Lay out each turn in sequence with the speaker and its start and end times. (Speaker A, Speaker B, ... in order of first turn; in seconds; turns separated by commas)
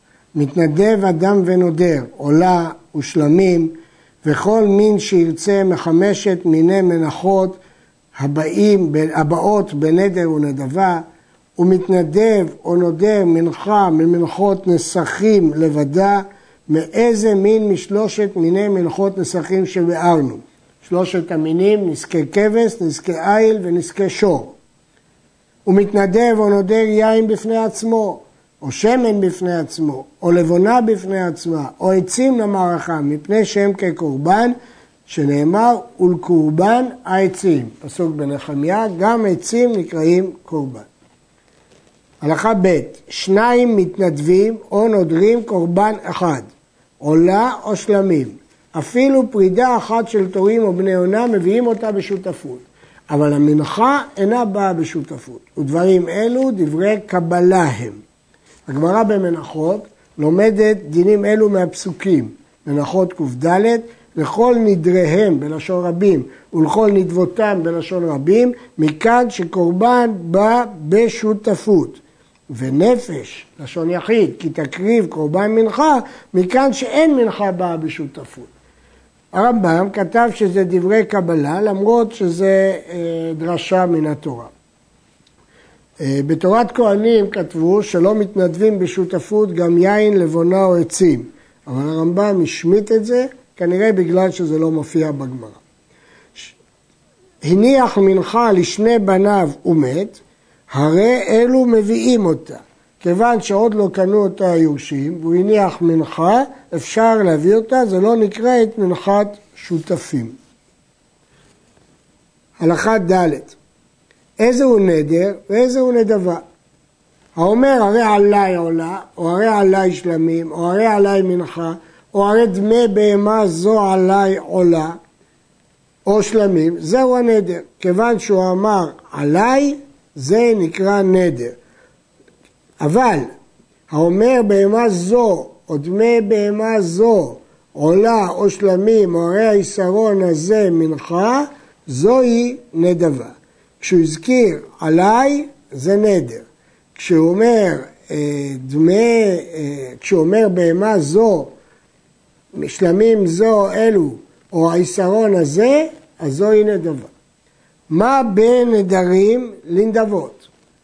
Speaker A: 0.3-7.6, Speaker A: 8.1-11.0, Speaker A: 11.6-24.6, Speaker A: 25.6-34.5, Speaker A: 35.1-40.9, Speaker A: 42.2-46.5, Speaker A: 47.0-58.0, Speaker A: 58.7-78.5, Speaker A: 79.3-84.5, Speaker A: 86.0-95.6, Speaker A: 97.4-100.2, Speaker A: 100.7-110.3, Speaker A: 112.6-113.6, Speaker A: 114.4-116.4, Speaker A: 117.3-125.0, Speaker A: 126.0-131.6, Speaker A: 132.8-133.3, Speaker A: 133.9-151.5, Speaker A: 152.5-157.1, Speaker A: 157.9-160.5